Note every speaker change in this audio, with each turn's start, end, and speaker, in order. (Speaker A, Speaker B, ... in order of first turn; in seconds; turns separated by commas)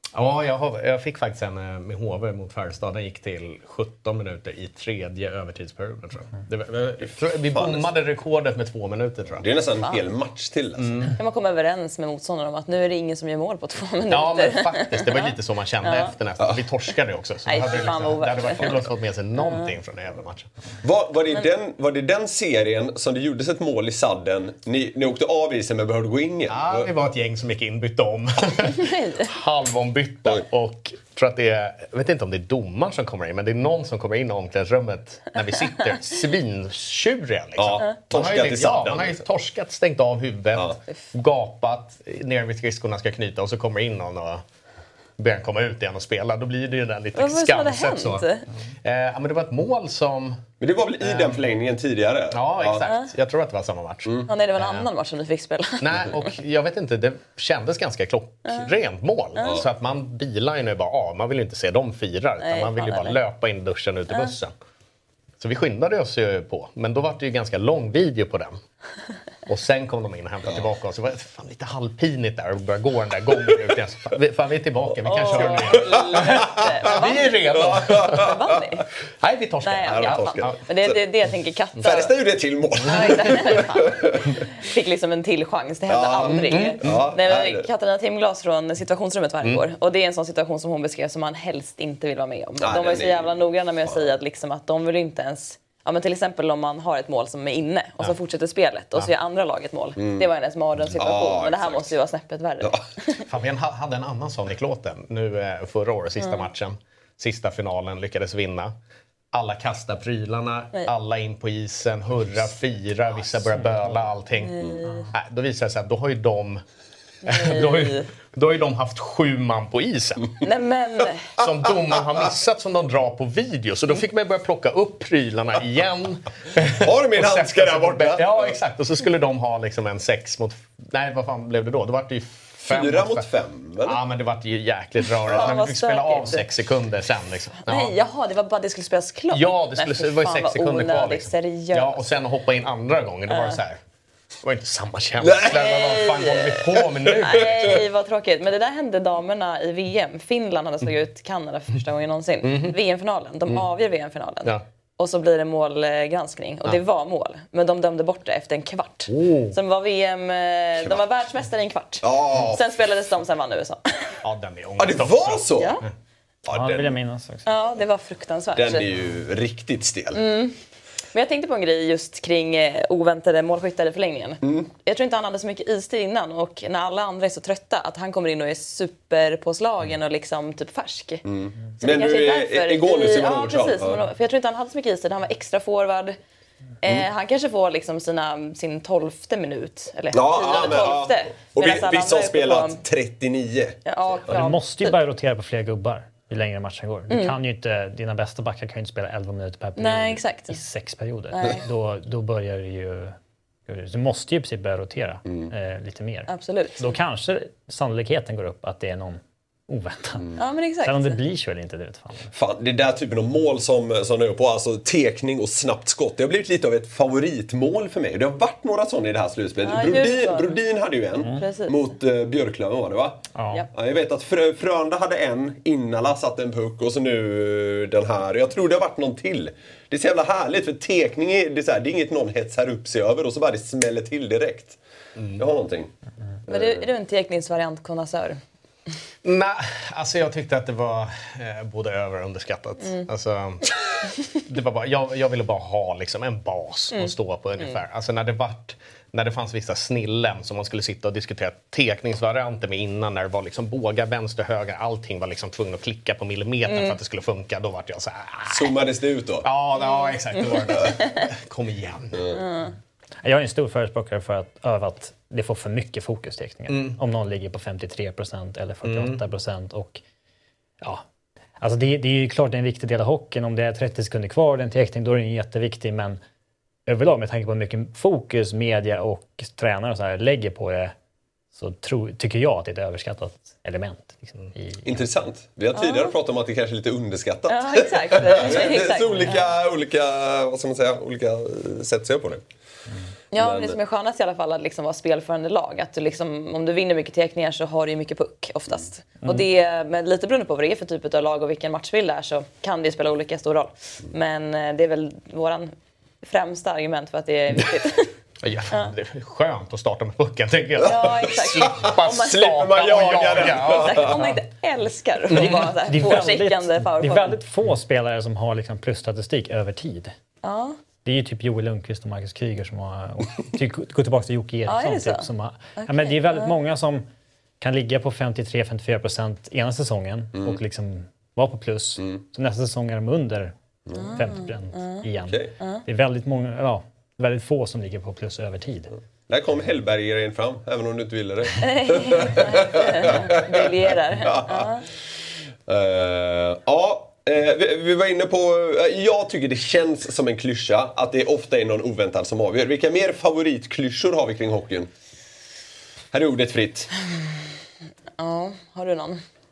Speaker A: 0.1-9.5, Speaker B: 7.5-7.9, Speaker B: 9.4-11.1, Speaker A: 10.8-11.2, Speaker C: 11.2-16.1, Speaker A: 14.1-20.5, Speaker C: 17.5-18.8, Speaker C: 19.4-19.7, Speaker B: 20.8-26.9, Speaker A: 26.5-44.4, Speaker C: 28.8-29.3, Speaker B: 37.6-39.2, Speaker A: 45.2-48.3, Speaker C: 47.1-48.5, Speaker A: 48.8-50.4, Speaker B: 50.6-52.9, Speaker A: 51.0-51.4, Speaker A: 52.3-54.9, Speaker C: 52.8-53.1, Speaker C: 54.3-56.3, Speaker A: 55.8-64.5, Speaker C: 59.4-59.6, Speaker C: 62.4-63.2, Speaker A: 65.4-68.6, Speaker A: 69.5-78.3, Speaker C: 75.0-77.4, Speaker B: 75.3-76.7, Speaker B: 77.5-78.4, Speaker C: 77.9-78.8, Speaker A: 79.2-80.6, Speaker C: 79.6-82.1, Speaker B: 79.9-80.9, Speaker B: 81.8-84.4, Speaker C: 82.8-103.2, Speaker B: 85.9-87.7, Speaker A: 86.2-87.0, Speaker B: 92.6-93.3, Speaker B: 100.0-100.3, Speaker B: 100.9-101.9, Speaker A: 103.3-108.7, Speaker C: 106.2-106.5, Speaker A: 109.3-116.6, Speaker C: 114.5-115.1, Speaker C: 117.2-118.1, Speaker A: 117.2-120.4, Speaker C: 120.4-121.3, Speaker A: 121.4-133.3, Speaker B: 126.8-128.5, Speaker B: 132.6-134.0, Speaker A: 133.8-137.9, Speaker C: 135.3-136.4, Speaker C: 137.7-142.0, Speaker A: 139.3-143.8, Speaker C: 143.3-143.6, Speaker A: 144.4-147.8, Speaker B: 145.2-145.6, Speaker C: 145.5-163.8, Speaker B: 147.1-147.8, Speaker A: 152.4-152.8, Speaker A: 159.1-159.6, Speaker B: 162.0-162.6, Speaker A: 164.2-165.7, Speaker B: 164.8-165.8, Speaker C: 165.6-165.8, Speaker B: 166.4-166.9, Speaker D: 166.5-167.5, Speaker C: 167.5-168.9, Speaker B: 168.6-170.2, Speaker C: 170.1-170.6, Speaker C: 171.1-181.2, Speaker B: 174.4-174.7, Speaker B: 181.2-184.0, Speaker C: 181.8-186.2, Speaker C: 186.8-192.8, Speaker B: 190.1-193.8, Speaker C: 193.8-194.9, Speaker D: 194.3-203.2, Speaker C: 197.1-197.3, Speaker C: 199.8-200.6, Speaker C: 201.3-201.6, Speaker D: 203.7-210.3, Speaker C: 206.3-206.9, Speaker C: 210.4-211.2, Speaker D: 210.8-212.3, Speaker B: 212.3-234.8, Speaker C: 219.6-220.6, Speaker C: 221.4-221.8, Speaker D: 223.3-223.6, Speaker A: 235.2-235.4, Speaker B: 235.4-235.9, Speaker B: 236.5-236.9, Speaker C: 236.5-238.4, Speaker A: 239.2-243.7, Speaker A: 244.3-258.8, Speaker C: 256.7-257.0, Speaker B: 258.5-259.5, Speaker A: 259.4-262.3, Speaker C: 260.0-261.2, Speaker B: 262.1-262.4, Speaker C: 262.3-262.7, Speaker D: 263.2-270.0, Speaker A: 266.7-267.0, Speaker A: 268.8-269.2, Speaker D: 271.6-276.2, Speaker D: 276.9-280.9, Speaker D: 281.6-285.0, Speaker B: 284.9-292.4, Speaker C: 285.7-286.1, Speaker C: 287.5-289.5, Speaker D: 289.1-289.4, Speaker C: 293.3-305.7, Speaker B: 293.4-293.8, Speaker C: 306.2-308.1, Speaker A: 308.4-314.4, Speaker C: 310.8-317.4, Speaker B: 311.5-314.2, Speaker D: 315.3-320.1, Speaker A: 315.3-315.6, Speaker C: 320.4-320.8, Speaker D: 321.1-327.1, Speaker C: 324.7-326.6, Speaker D: 327.6-333.5, Speaker B: 333.9-334.2, Speaker C: 333.9-335.1, Speaker D: 334.2-338.9, Speaker C: 335.6-335.8, Speaker B: 339.3-344.7, Speaker C: 341.6-344.8, Speaker B: 345.7-354.9, Speaker B: 356.1-356.9, Speaker C: 358.2-359.2